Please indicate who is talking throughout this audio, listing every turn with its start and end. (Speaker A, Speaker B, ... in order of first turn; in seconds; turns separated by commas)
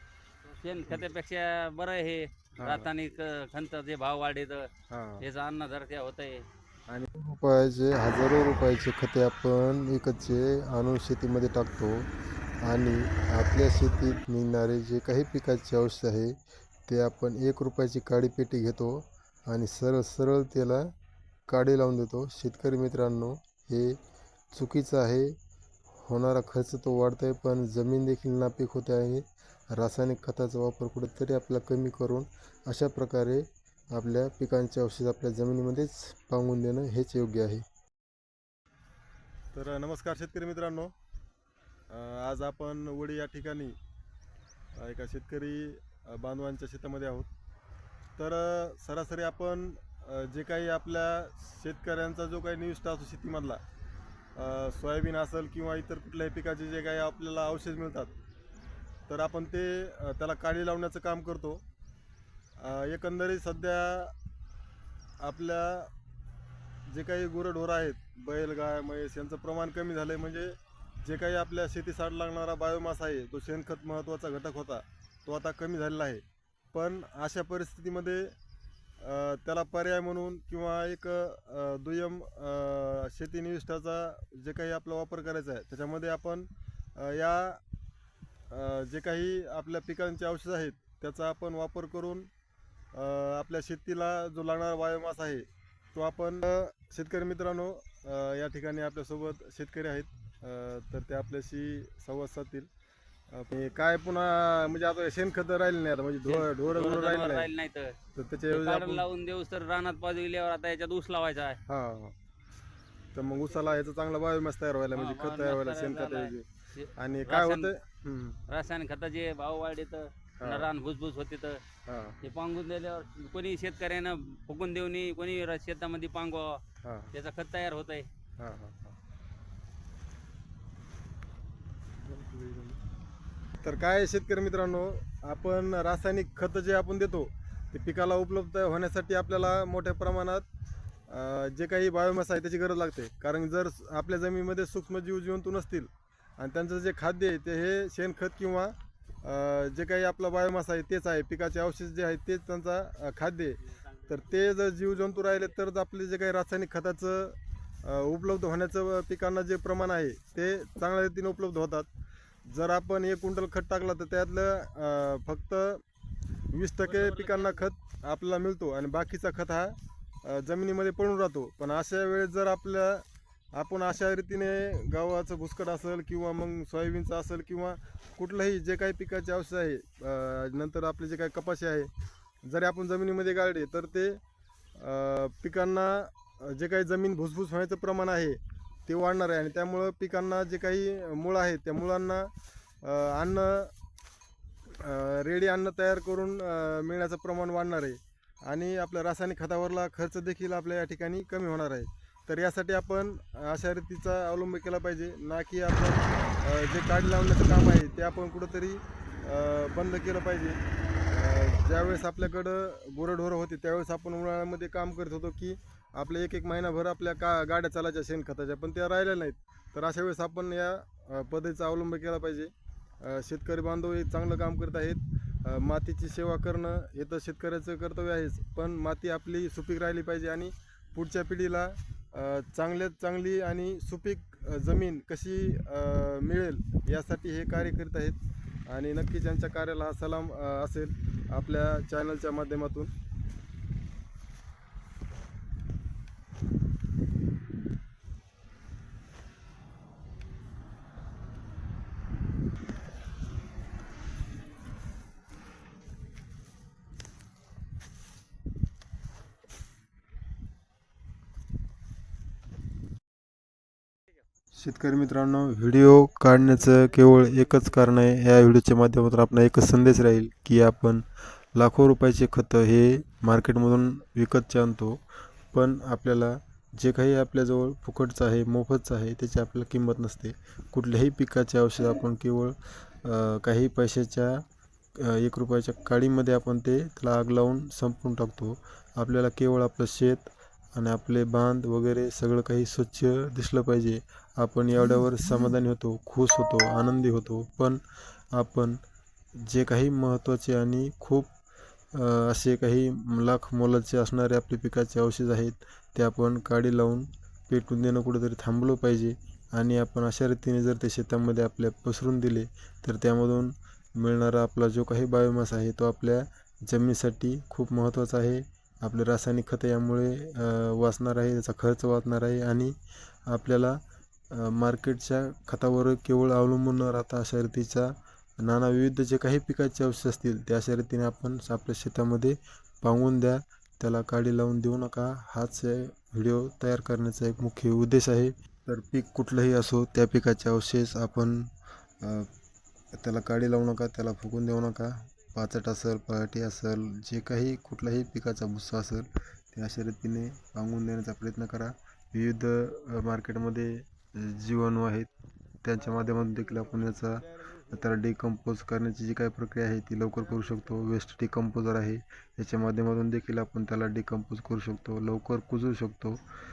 Speaker A: 0.4-4.7, Speaker B: 2.5-2.9, Speaker B: 4.9-5.2, Speaker A: 5.2-6.4, Speaker C: 7.1-12.1, Speaker C: 12.6-16.4, Speaker C: 16.9-20.9, Speaker C: 21.5-24.0, Speaker C: 24.5-25.3, Speaker C: 26.0-37.6, Speaker B: 39.5-40.9, Speaker B: 41.9-43.8, Speaker B: 44.7-47.3, Speaker B: 48.2-53.6, Speaker B: 54.3-58.1, Speaker B: 59.1-61.6, Speaker B: 62.6-64.1, Speaker B: 65.2-65.9, Speaker B: 66.9-78.3, Speaker B: 79.0-87.6, Speaker B: 88.5-92.3, Speaker B: 92.9-102.7, Speaker B: 103.3-107.5, Speaker A: 106.2-107.9, Speaker B: 108.1-109.1, Speaker A: 108.5-111.6, Speaker B: 111.7-112.2, Speaker B: 113.1-116.4, Speaker A: 113.3-113.7, Speaker A: 114.9-117.7, Speaker B: 117.0-118.4, Speaker A: 118.5-121.6, Speaker B: 120.4-120.7, Speaker B: 121.8-122.2, Speaker A: 122.2-126.6, Speaker B: 126.8-127.1, Speaker A: 127.1-128.1, Speaker B: 128.4-129.0, Speaker B: 132.0-132.8, Speaker B: 133.6-140.5, Speaker B: 141.1-161.9, Speaker B: 162.5-165.8, Speaker B: 166.5-181.9, Speaker A: 166.8-167.7, Speaker B: 182.4-184.2, Speaker B: 184.7-193.7, Speaker B: 194.8-242.9, Speaker C: 264.5-284.4, Speaker C: 284.9-297.8, Speaker C: 298.3-298.8, Speaker C: 299.4-301.3, Speaker C: 301.9-322.7, Speaker C: 323.3-342.3, Speaker C: 342.9-355.1, Speaker C: 355.6-366.2